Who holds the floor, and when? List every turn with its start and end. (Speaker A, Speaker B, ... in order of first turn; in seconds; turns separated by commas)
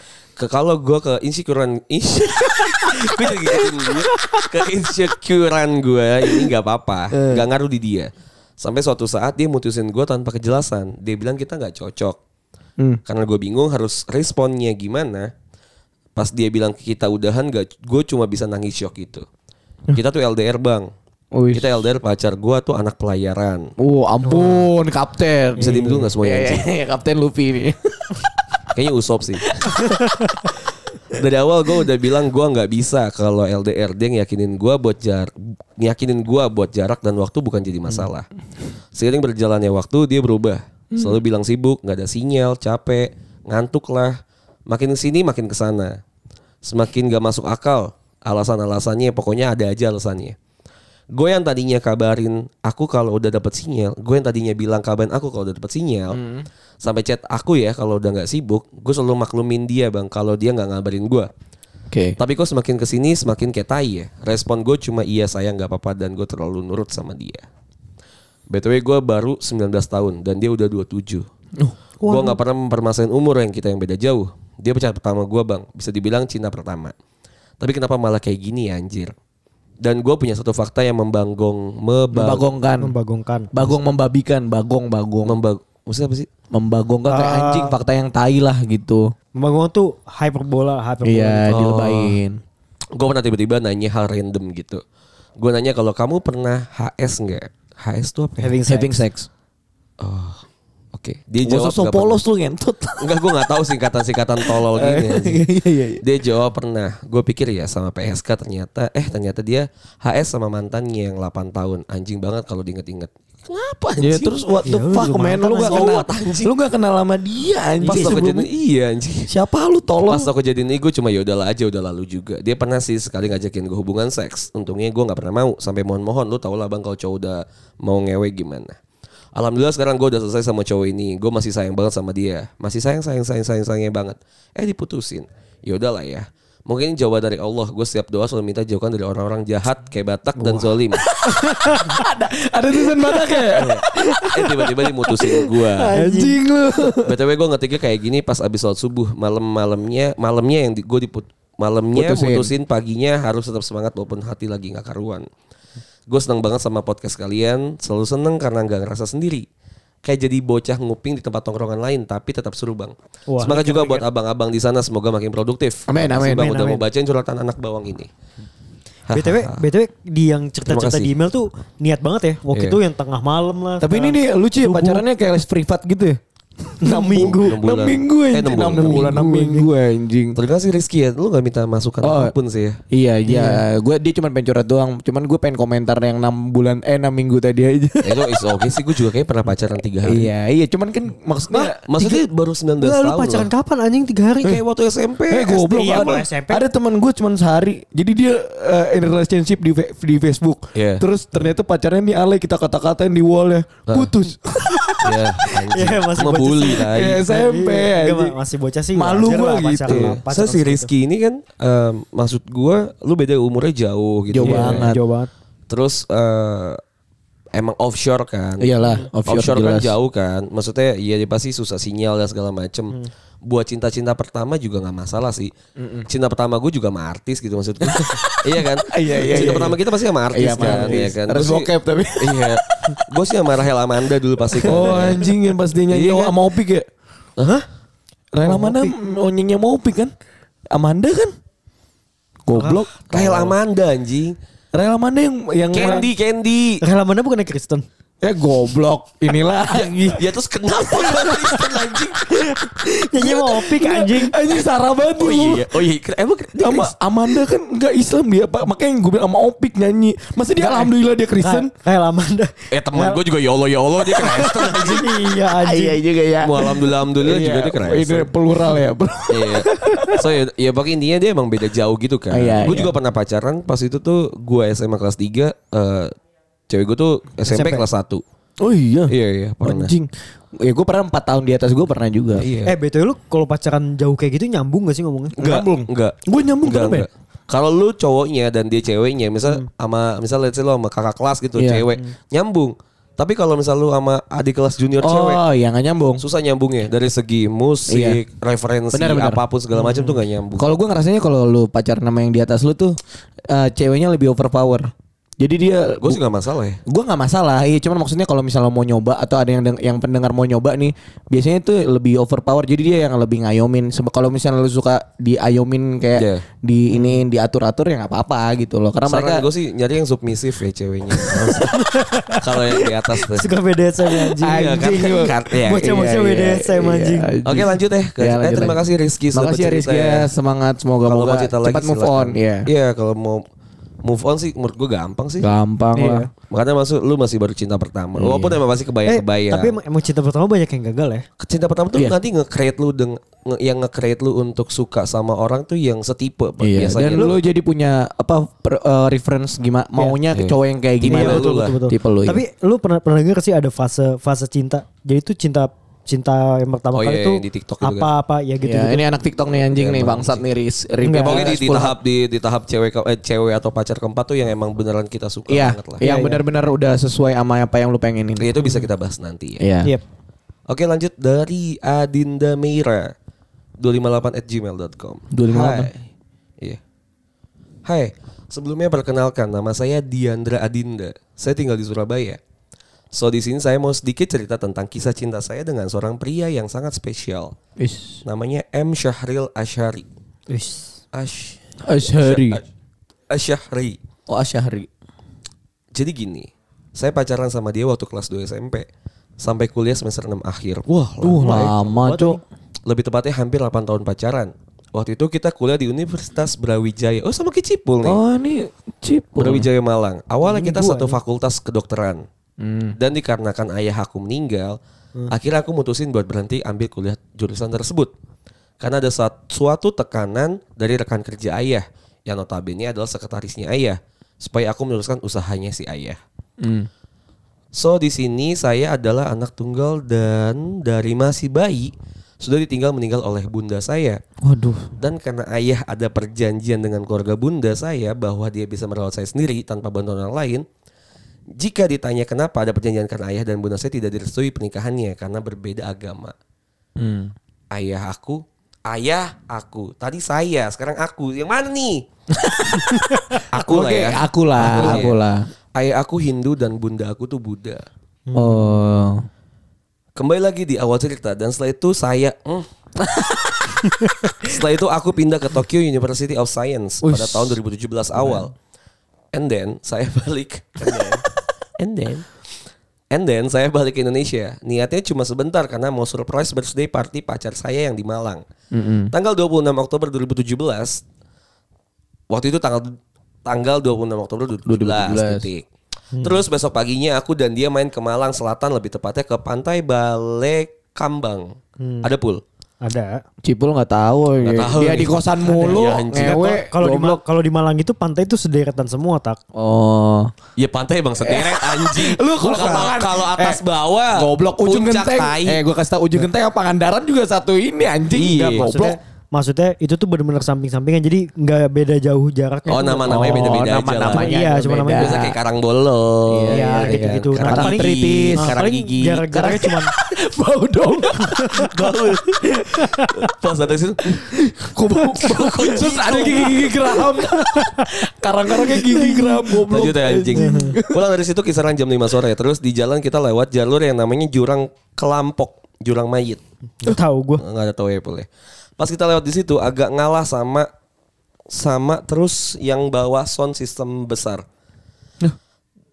Speaker A: 0.4-12.2, Speaker B: 2.3-4.7, Speaker B: 7.1-7.4, Speaker A: 13.1-15.3, Speaker A: 16.1-19.2, Speaker A: 19.9-20.9, Speaker B: 21.3-21.7, Speaker A: 21.5-23.7, Speaker B: 23.8-28.2, Speaker A: 25.6-26.6, Speaker C: 25.6-26.1, Speaker A: 28.7-29.6, Speaker A: 31.1-38.3, Speaker A: 38.9-46.0, Speaker B: 40.9-41.2, Speaker A: 46.6-50.4, Speaker A: 51.1-56.2, Speaker B: 56.1-56.5, Speaker A: 56.8-61.3, Speaker B: 61.9-62.2, Speaker A: 62.2-67.5, Speaker A: 68.5-71.2, Speaker C: 72.0-72.3, Speaker A: 72.1-76.9, Speaker A: 77.6-79.1, Speaker A: 79.8-82.4, Speaker B: 82.1-82.9, Speaker C: 82.8-83.7, Speaker B: 83.5-85.4, Speaker A: 85.2-86.3, Speaker B: 86.5-89.1, Speaker C: 87.1-87.7, Speaker C: 89.3-91.5, Speaker B: 91.0-92.4, Speaker A: 91.5-92.2, Speaker A: 92.9-94.8, Speaker A: 95.4-98.5, Speaker C: 98.4-99.0, Speaker B: 98.7-99.3, Speaker A: 100.0-100.4, Speaker A: 100.9-102.2, Speaker B: 101.4-103.4, Speaker A: 103.0-105.4, Speaker B: 104.4-106.0, Speaker A: 106.0-116.5, Speaker B: 114.0-118.4, Speaker C: 114.6-115.8, Speaker C: 117.8-118.3, Speaker A: 117.8-119.3, Speaker B: 119.3-120.3, Speaker A: 120.1-128.8, Speaker A: 129.3-141.0, Speaker C: 140.4-140.7, Speaker B: 141.0-147.1, Speaker C: 141.3-142.0, Speaker A: 143.5-145.9, Speaker C: 145.8-146.4, Speaker A: 147.0-155.2, Speaker B: 151.9-152.5, Speaker A: 156.1-159.4, Speaker A: 160.0-168.1, Speaker C: 163.3-164.0, Speaker B: 165.9-166.6, Speaker C: 166.2-166.8, Speaker A: 169.1-169.6, Speaker C: 169.1-175.0, Speaker A: 170.7-171.1, Speaker A: 172.5-172.8, Speaker B: 173.8-180.4, Speaker C: 176.8-177.6, Speaker A: 177.1-179.2, Speaker C: 178.8-179.7, Speaker A: 180.3-182.8, Speaker B: 182.0-182.3, Speaker B: 182.9-188.3, Speaker C: 183.3-183.6, Speaker A: 188.0-190.3, Speaker B: 190.0-191.8, Speaker C: 191.5-192.2, Speaker A: 191.8-193.5, Speaker C: 192.8-194.6, Speaker A: 194.4-196.1, Speaker B: 195.3-205.1, Speaker C: 195.5-196.6, Speaker A: 200.7-201.0, Speaker A: 203.9-204.1, Speaker A: 205.0-207.2, Speaker C: 205.7-210.9, Speaker B: 206.8-208.3, Speaker B: 208.9-210.2, Speaker A: 209.8-214.9, Speaker B: 214.3-215.0, Speaker C: 214.4-215.3, Speaker A: 215.7-216.8, Speaker A: 217.5-225.5, Speaker B: 218.6-219.9, Speaker B: 225.8-226.1, Speaker A: 226.1-235.3, Speaker B: 227.8-232.9, Speaker B: 234.6-236.9, Speaker A: 235.9-236.3, Speaker B: 238.3-240.1, Speaker C: 238.5-238.9, Speaker B: 240.7-241.3, Speaker B: 242.4-243.5, Speaker C: 242.5-243.2, Speaker A: 243.1-244.4, Speaker B: 244.7-246.1, Speaker A: 245.7-246.8, Speaker C: 245.8-246.0, Speaker C: 246.8-247.8, Speaker B: 248.2-250.2, Speaker A: 249.7-252.2, Speaker B: 251.0-252.0, Speaker C: 252.3-254.3, Speaker B: 253.1-255.7, Speaker A: 255.1-256.9, Speaker B: 256.6-261.7, Speaker C: 260.6-263.2, Speaker A: 262.7-265.2, Speaker C: 264.1-266.0, Speaker B: 265.5-270.3, Speaker A: 266.4-268.3, Speaker A: 269.3-276.1, Speaker B: 272.3-272.9, Speaker A: 276.7-278.2, Speaker C: 277.4-277.9, Speaker B: 278.6-282.5, Speaker A: 279.1-279.9, Speaker A: 282.4-282.7, Speaker C: 282.6-285.4, Speaker B: 285.4-287.1, Speaker A: 285.4-295.4, Speaker B: 291.6-291.9, Speaker B: 295.0-296.2, Speaker A: 296.2-300.7, Speaker B: 297.9-298.2, Speaker B: 298.9-299.4, Speaker C: 299.7-300.2, Speaker B: 300.6-303.0, Speaker B: 303.5-306.2, Speaker A: 306.0-306.8, Speaker B: 306.9-319.4, Speaker A: 316.1-316.4, Speaker C: 316.9-317.2, Speaker A: 319.1-321.8, Speaker B: 321.2-321.6, Speaker C: 321.7-322.4, Speaker A: 322.4-323.5, Speaker C: 323.3-327.3, Speaker B: 324.2-328.8, Speaker A: 324.4-325.9, Speaker A: 327.4-330.3, Speaker B: 329.3-332.7, Speaker A: 331.0-333.4, Speaker A: 334.0-335.5, Speaker B: 335.4-336.3, Speaker C: 335.9-336.3, Speaker A: 336.5-339.7, Speaker B: 338.1-338.6, Speaker C: 339.0-341.2, Speaker A: 341.4-347.4, Speaker B: 346.6-352.4, Speaker A: 350.3-351.8, Speaker C: 351.1-359.0, Speaker A: 356.9-358.1, Speaker B: 358.6-362.0, Speaker A: 359.7-360.4, Speaker C: 361.0-361.4, Speaker A: 361.2-366.0, Speaker B: 365.5-368.6, Speaker C: 366.0-366.4, Speaker A: 368.4-369.6, Speaker B: 369.6-369.9, Speaker A: 370.7-373.1, Speaker A: 373.8-376.0, Speaker B: 375.3-375.9, Speaker A: 377.9-382.4, Speaker A: 383.1-387.5, Speaker B: 387.8-388.2, Speaker A: 388.2-390.0, Speaker C: 390.5-390.9, Speaker A: 391.1-392.6, Speaker B: 391.8-392.6, Speaker A: 393.3-394.0, Speaker B: 394.3-394.9, Speaker A: 395.9-398.9, Speaker A: 399.4-401.7, Speaker B: 401.2-402.4, Speaker C: 401.5-402.4, Speaker A: 402.9-408.2, Speaker B: 408.0-409.7, Speaker A: 409.4-412.2, Speaker C: 410.4-411.2, Speaker B: 412.6-412.9, Speaker A: 412.9-414.8, Speaker A: 415.3-418.1, Speaker A: 418.8-426.2, Speaker B: 426.6-426.9, Speaker A: 427.7-434.2, Speaker B: 434.4-434.9, Speaker A: 435.0-440.6, Speaker A: 441.6-446.3, Speaker B: 447.0-447.3, Speaker A: 447.7-452.1, Speaker B: 452.3-455.5, Speaker A: 453.5-455.2, Speaker C: 454.7-455.0, Speaker A: 455.7-457.8, Speaker C: 458.3-458.7, Speaker B: 458.3-459.2, Speaker A: 460.1-462.7, Speaker B: 463.0-463.6, Speaker A: 464.4-468.5, Speaker B: 467.0-467.6, Speaker A: 469.3-471.2, Speaker A: 471.8-472.3, Speaker A: 473.1-478.4, Speaker B: 478.7-479.1, Speaker A: 479.1-481.0, Speaker A: 482.3-485.6, Speaker B: 484.6-485.5, Speaker C: 486.1-486.4, Speaker A: 486.2-492.4, Speaker C: 491.8-492.1, Speaker C: 492.8-493.2, Speaker B: 493.4-497.2, Speaker A: 494.4-496.6, Speaker C: 495.4-499.4, Speaker B: 499.5-500.3, Speaker A: 500.6-505.6, Speaker B: 501.2-503.6, Speaker B: 504.1-509.0, Speaker A: 508.1-508.7, Speaker C: 508.5-513.6, Speaker A: 512.7-514.3, Speaker B: 513.1-515.4, Speaker C: 514.1-515.2, Speaker A: 515.0-519.3, Speaker B: 516.3-518.6, Speaker C: 516.5-519.9, Speaker B: 519.3-521.6, Speaker C: 521.2-521.7, Speaker A: 521.6-522.4, Speaker C: 522.8-523.1, Speaker A: 523.2-524.2, Speaker B: 524.2-531.0, Speaker A: 525.1-526.7, Speaker C: 527.2-527.9, Speaker C: 528.7-529.5, Speaker A: 529.7-536.4, Speaker C: 530.4-530.8, Speaker C: 536.8-537.4, Speaker A: 537.4-538.3, Speaker A: 538.8-540.7, Speaker A: 541.5-544.4